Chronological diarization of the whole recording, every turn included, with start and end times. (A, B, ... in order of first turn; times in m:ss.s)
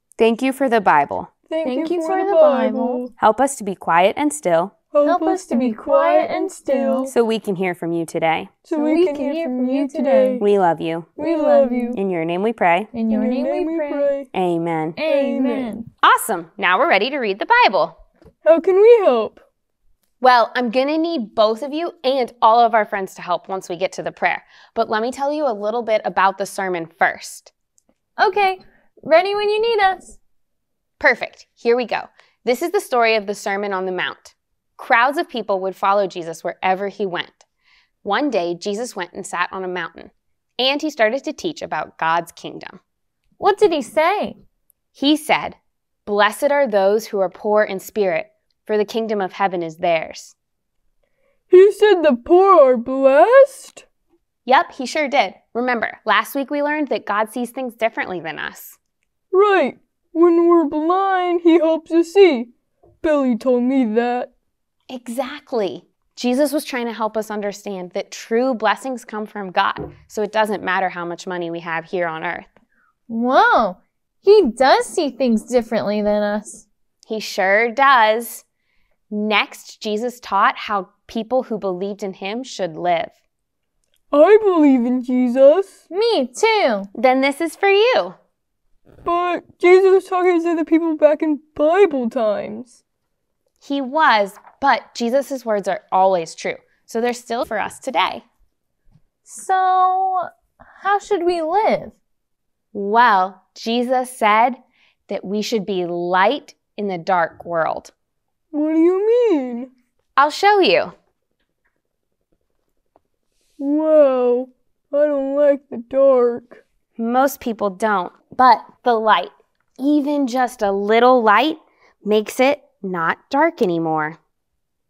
0:00.2-0:01.3 A
0:01.5-0:03.1 B
0:01.6-0:03.0 C
0:03.2-0:04.7 A
0:04.9-0:07.1 B
0:05.0-0:07.1 C
0:07.1-0:08.5 A
0:08.6-0:10.5 B
0:08.7-0:10.4 C
0:10.4-0:11.1 A
0:11.2-0:12.0 B
0:11.2-0:12.0 C
0:11.9-0:12.9 A
0:12.9-0:14.1 C
0:13.0-0:14.3 B
0:14.3-0:15.0 A
0:15.0-0:15.9 C
0:15.0-0:15.7 B
0:16.0-0:18.0 A
0:18.4-0:19.4 B
0:20.2-0:27.5 A
0:28.2-0:30.2 C
0:31.0-0:37.4 A
0:38.0-0:42.8 A
0:43.4-0:44.4 C
0:44.9-0:50.4 A
0:51.5-0:53.8 B
0:54.4-0:58.8 A
0:59.3-1:02.5 B
1:03.0-1:04.3 B
1:04.9-1:12.5 A
1:13.1-1:16.6 C
1:17.1-1:18.4 A
1:19.1-1:23.1 A
1:24.1-1:25.8 B
1:25.9-1:26.9 C
1:26.9-1:28.2 A
1:29.0-1:32.8 B
1:33.6-1:38.2 A
1:39.2-1:40.3 C
1:40.8-1:42.0 C
1:42.7-1:47.9 A
1:48.5-1:49.7 B
1:50.2-1:50.9 A
1:53.6-1:56.6 B
1:57.0-2:04.2 A